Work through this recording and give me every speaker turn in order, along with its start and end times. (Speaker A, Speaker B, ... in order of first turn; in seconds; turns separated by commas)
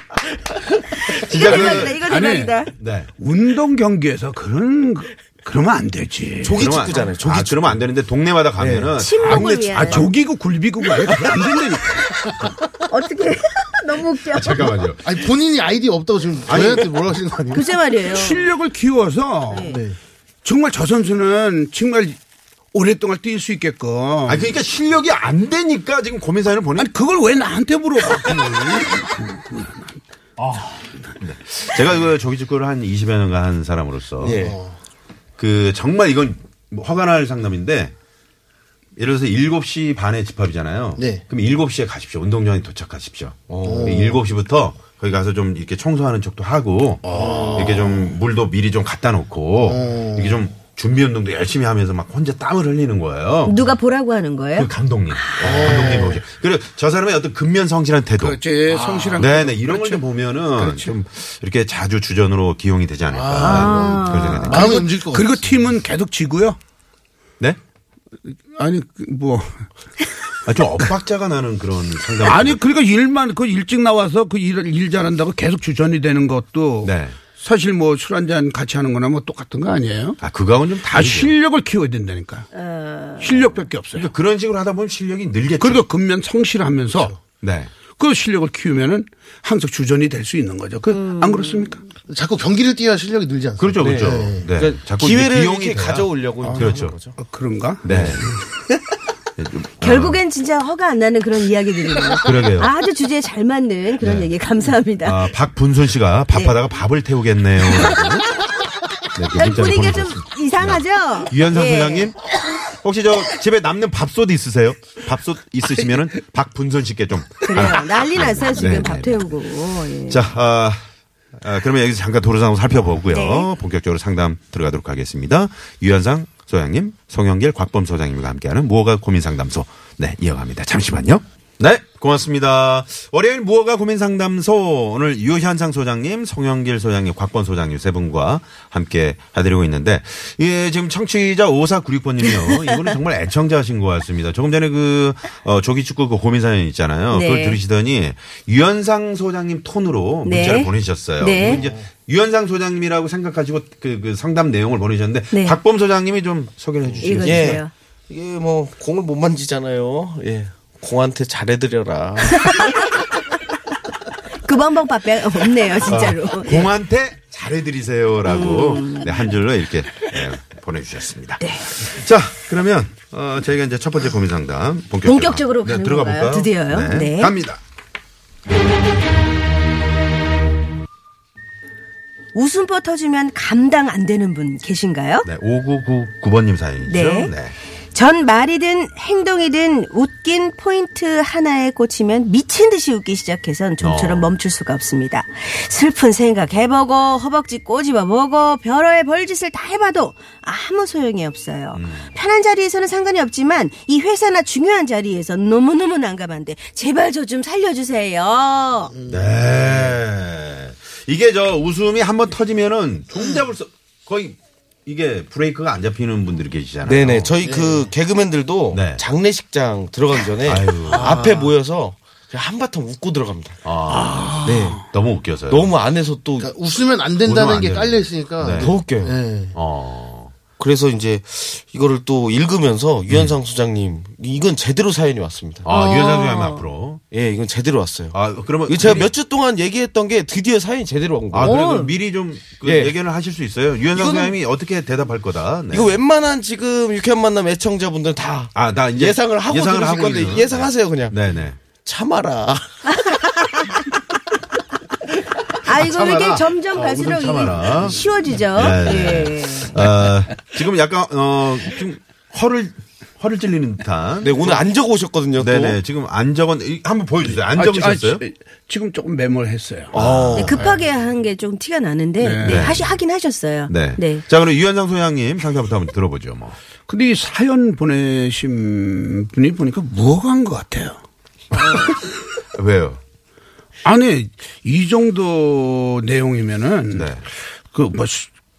Speaker A: 1.1-2.7, Speaker B: 1.1-2.0, Speaker C: 1.9-2.5, Speaker B: 2.8-3.1, Speaker C: 3.2-6.6, Speaker D: 6.4-7.8, Speaker B: 6.5-9.6, Speaker D: 8.6-10.0, Speaker A: 9.0-10.1, Speaker C: 9.2-12.1, Speaker A: 12.9-14.8, Speaker B: 14.3-15.0, Speaker E: 15.0-17.6, Speaker B: 16.5-16.9, Speaker A: 17.5-18.4, Speaker C: 18.1-19.8, Speaker A: 19.5-19.8, Speaker E: 19.7-20.0, Speaker C: 20.4-22.2, Speaker C: 22.7-24.5, Speaker B: 24.2-26.9, Speaker C: 26.8-30.9, Speaker B: 31.2-34.4, Speaker D: 34.2-34.6, Speaker E: 34.2-34.8, Speaker B: 35.4-37.9, Speaker B: 39.0-53.6, Speaker E: 41.0-41.2, Speaker D: 43.5-43.9, Speaker E: 43.6-44.2, Speaker E: 47.1-48.1, Speaker E: 49.6-50.4, Speaker A: 53.4-55.9, Speaker B: 54.5-58.4, Speaker E: 55.4-56.2, Speaker C: 58.2-60.0, Speaker E: 58.7-59.3, Speaker B: 59.2-64.7, Speaker C: 60.6-60.9, Speaker E: 63.1-65.6, Speaker A: 63.4-64.8, Speaker C: 64.5-66.6, Speaker C: 68.5-69.7, Speaker B: 70.4-72.6, Speaker C: 72.2-80.2, Speaker B: 76.8-77.2, Speaker B: 80.2-81.3, Speaker C: 80.9-82.5, Speaker A: 82.5-83.4, Speaker C: 83.2-84.1, Speaker B: 83.9-85.8, Speaker C: 85.6-87.2, Speaker B: 87.4-87.7, Speaker C: 88.0-91.8, Speaker A: 90.9-91.7, Speaker E: 92.1-94.5, Speaker B: 93.6-96.9, Speaker D: 93.8-97.2, Speaker C: 96.4-98.4, Speaker B: 97.8-98.3, Speaker B: 99.4-100.2, Speaker A: 99.8-105.3, Speaker B: 102.2-102.7, Speaker B: 104.0-104.3, Speaker B: 105.0-108.3, Speaker A: 107.7-108.0, Speaker B: 109.1-119.3, Speaker A: 109.3-112.1, Speaker A: 117.4-120.3, Speaker B: 120.1-120.8, Speaker B: 121.3-157.6, Speaker A: 123.1-123.5, Speaker A: 147.1-147.6, Speaker A: 150.2-151.6, Speaker E: 151.4-151.9, Speaker A: 155.3-155.6, Speaker A: 157.0-157.7, Speaker D: 157.2-162.7, Speaker A: 162.4-162.7, Speaker A: 164.4-166.7, Speaker B: 165.8-177.6, Speaker A: 168.2-169.2, Speaker A: 171.4-171.7, Speaker A: 175.0-177.3, Speaker A: 182.3-185.3, Speaker B: 185.2-187.5, Speaker A: 186.9-187.3, Speaker A: 187.9-208.9, Speaker B: 193.8-194.3, Speaker B: 201.7-202.1, Speaker E: 208.9-209.9, Speaker B: 209.1-217.3, Speaker D: 216.8-223.6, Speaker E: 217.4-217.9, Speaker B: 218.7-219.0, Speaker B: 220.4-221.2, Speaker E: 221.0-221.4, Speaker B: 223.6-225.7, Speaker C: 223.9-224.8, Speaker D: 224.4-224.8, Speaker D: 225.5-226.5, Speaker E: 226.4-229.6, Speaker B: 227.2-228.7, Speaker D: 228.6-229.2, Speaker B: 229.5-230.3, Speaker D: 230.6-235.7, Speaker B: 233.1-233.3, Speaker B: 235.6-237.0, Speaker A: 235.7-236.7, Speaker D: 237.1-241.6, Speaker B: 238.1-239.1, Speaker B: 241.3-246.0, Speaker A: 241.4-241.9, Speaker D: 242.6-242.9, Speaker D: 243.9-244.4, Speaker D: 245.7-251.2, Speaker B: 248.5-251.6, Speaker D: 251.7-252.7, Speaker A: 255.6-259.8, Speaker E: 255.7-256.6, Speaker B: 256.8-258.0, Speaker B: 258.5-264.6, Speaker D: 264.2-265.8, Speaker B: 265.4-268.2, Speaker C: 267.5-270.7, Speaker B: 269.9-270.6, Speaker D: 270.0-270.6, Speaker A: 270.3-274.2, Speaker C: 272.2-272.8, Speaker B: 272.4-272.9, Speaker B: 273.7-276.6, Speaker C: 276.9-281.0, Speaker B: 281.5-281.9, Speaker A: 281.6-281.9, Speaker B: 282.5-283.0, Speaker C: 283.8-287.1, Speaker B: 286.9-287.2, Speaker C: 287.7-288.3